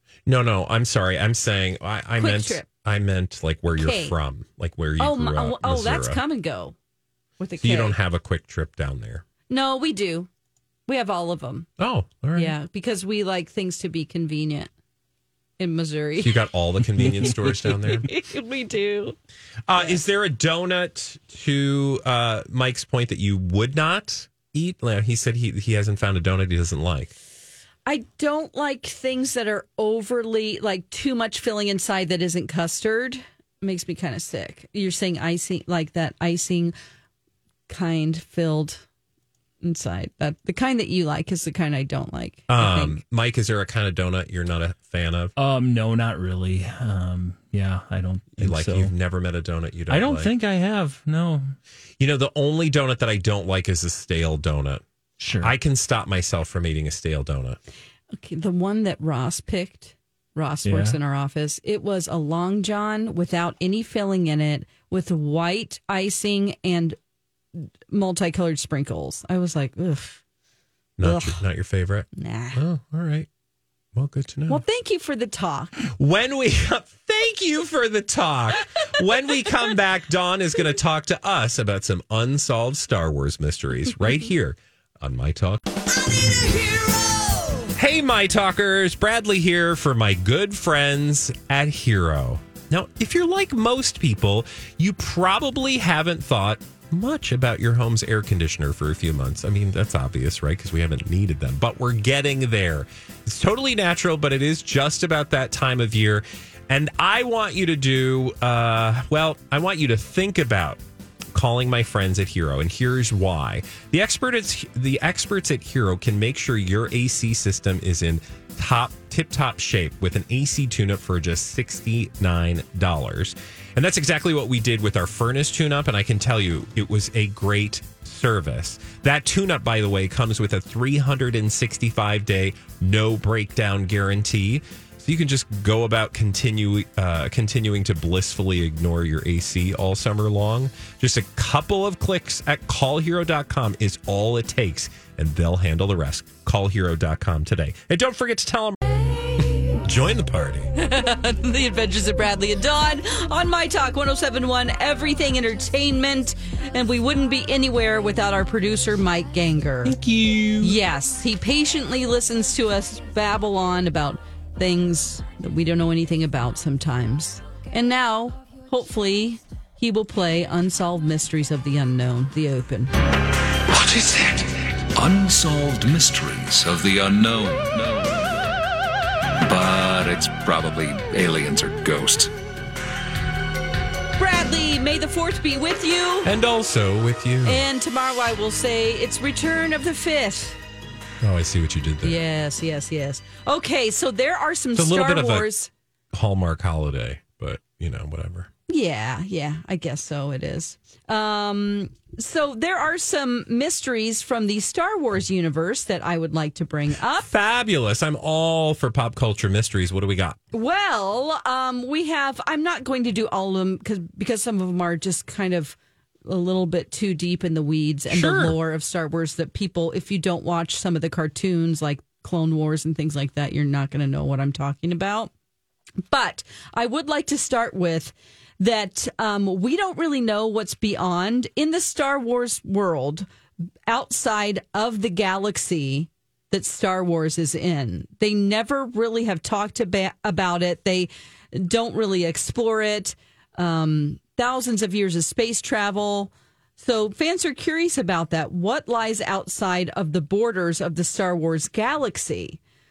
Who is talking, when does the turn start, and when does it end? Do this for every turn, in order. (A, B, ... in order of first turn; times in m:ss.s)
0:00.2-0:06.2 A
0:02.2-0:02.7 B
0:03.8-0:04.2 B
0:05.0-0:06.7 B
0:07.4-0:08.0 B
0:07.6-0:09.2 A
0:09.5-0:10.3 B
0:10.9-0:11.7 B
0:11.8-0:12.6 A
0:12.3-0:14.7 B
0:15.6-0:16.4 B
0:16.2-0:18.1 A
0:17.0-0:17.8 C
0:18.0-0:19.2 B
0:19.7-0:27.1 A
0:27.8-0:36.7 B
0:37.7-0:38.8 B
0:39.6-0:43.0 B
0:42.5-0:45.3 A
0:45.4-0:48.9 C
0:48.4-0:50.3 A
0:49.9-0:51.5 C
0:52.0-0:54.8 A
0:55.2-0:55.5 C
0:55.4-0:57.6 A
0:58.2-1:07.0 B
1:00.6-1:01.0 C
1:07.6-1:10.2 B
1:11.0-1:13.3 A
1:11.0-1:11.4 B
1:12.1-1:12.6 B
1:13.9-1:14.6 A
1:14.5-1:15.7 B
1:15.9-1:25.6 A
1:27.7-1:50.8 A
1:51.3-2:28.9 A
2:29.5-2:30.7 A
2:30.7-2:40.0 B
2:39.9-2:40.6 C
2:40.6-2:52.9 B
2:53.7-2:58.6 D
2:59.4-3:02.3 D
3:04.2-3:06.3 B
3:06.2-3:07.6 A
3:07.4-3:10.6 B
3:11.2-3:12.2 A
3:12.0-3:15.7 B
3:14.7-3:15.5 A
3:16.1-3:18.5 A
3:18.7-3:27.3 B
3:27.2-3:30.4 A
3:30.5-3:45.3 B
3:38.1-3:38.6 A
3:46.1-3:53.2 B
3:53.9-4:12.6 B